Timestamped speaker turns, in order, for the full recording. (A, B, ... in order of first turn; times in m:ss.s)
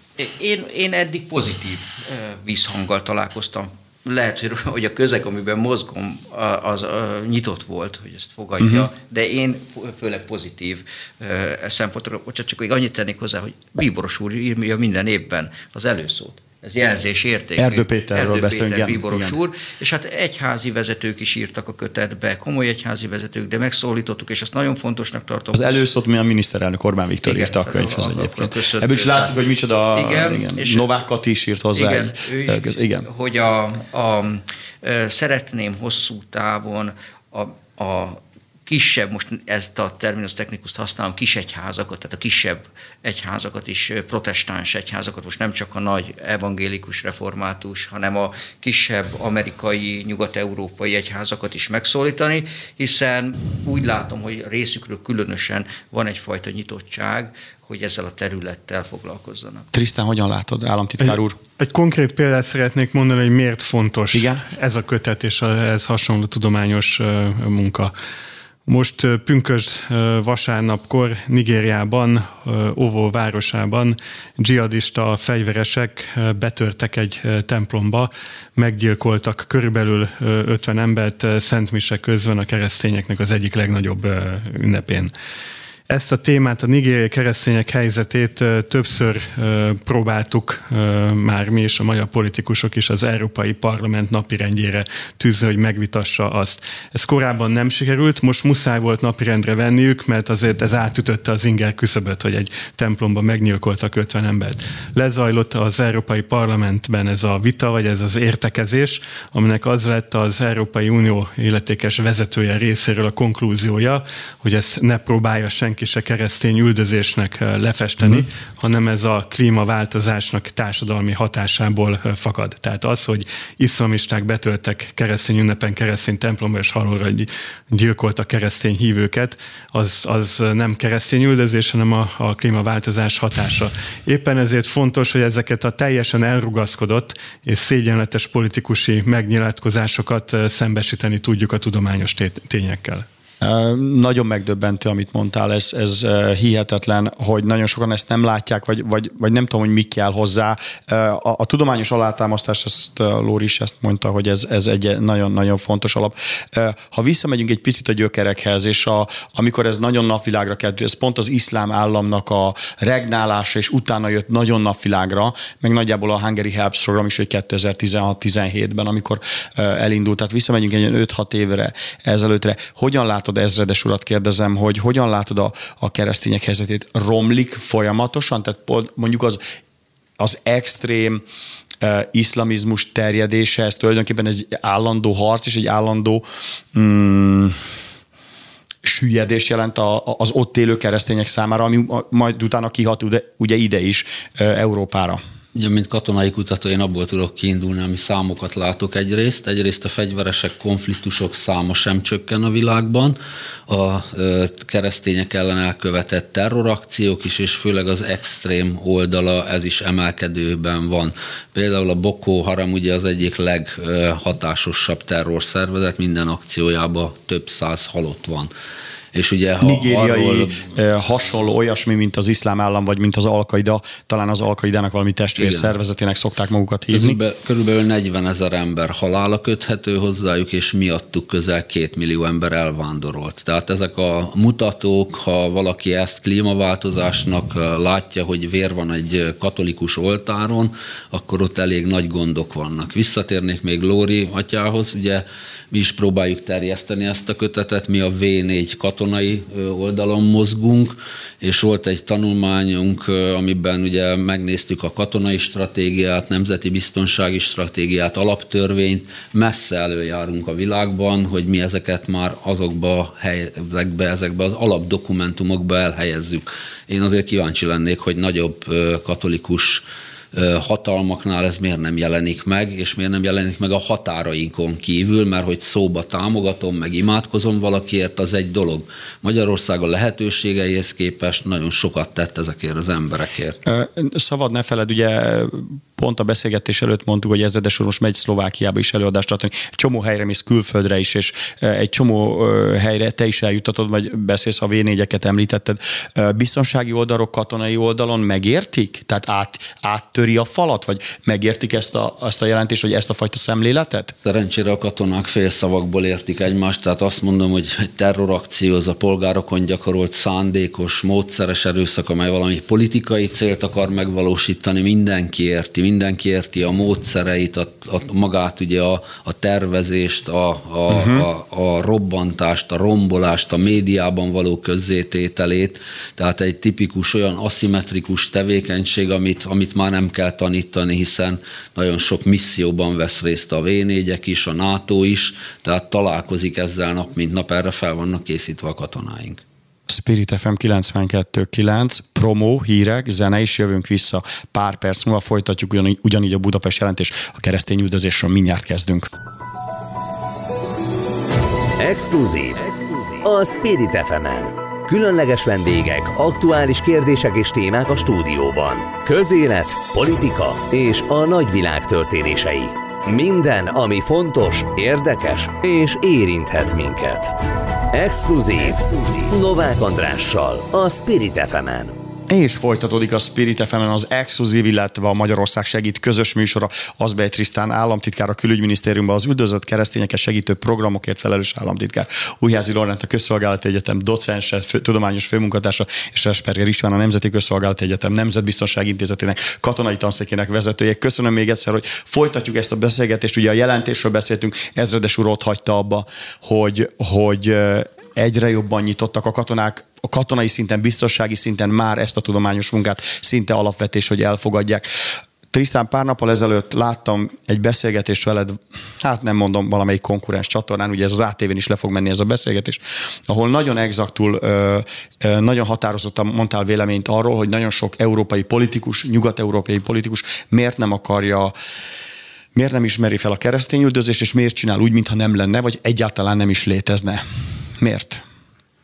0:00.2-0:25.8 A
0:08.6-0:08.9 B
0:17.6-0:19.4 B
0:25.5-0:33.1 B
0:27.2-0:29.4 A
0:29.9-0:30.9 A
0:31.8-0:59.7 A
0:59.7-1:01.4 B
1:01.0-1:07.9 C
1:04.1-1:04.4 B
1:08.7-1:25.1 C
1:25.9-2:23.1 C
2:23.4-2:59.4 B
3:00.2-3:01.2 B
3:01.8-3:07.6 B
3:08.8-3:15.2 B
3:15.5-3:23.2 D
3:23.7-3:38.5 D
3:39.1-3:40.7 D
3:39.6-3:47.2 B
3:45.4-3:45.7 D
3:46.9-4:43.6 D
4:43.7-5:04.1 B
5:04.2-5:39.4 D
5:20.9-5:21.3 B
5:39.9-5:49.1 B
5:51.8-6:07.4 E
6:07.9-6:12.0 E
6:12.3-6:44.9 B
6:45.5-7:01.5 B
7:02.6-7:07.2 B
7:07.8-7:08.2 B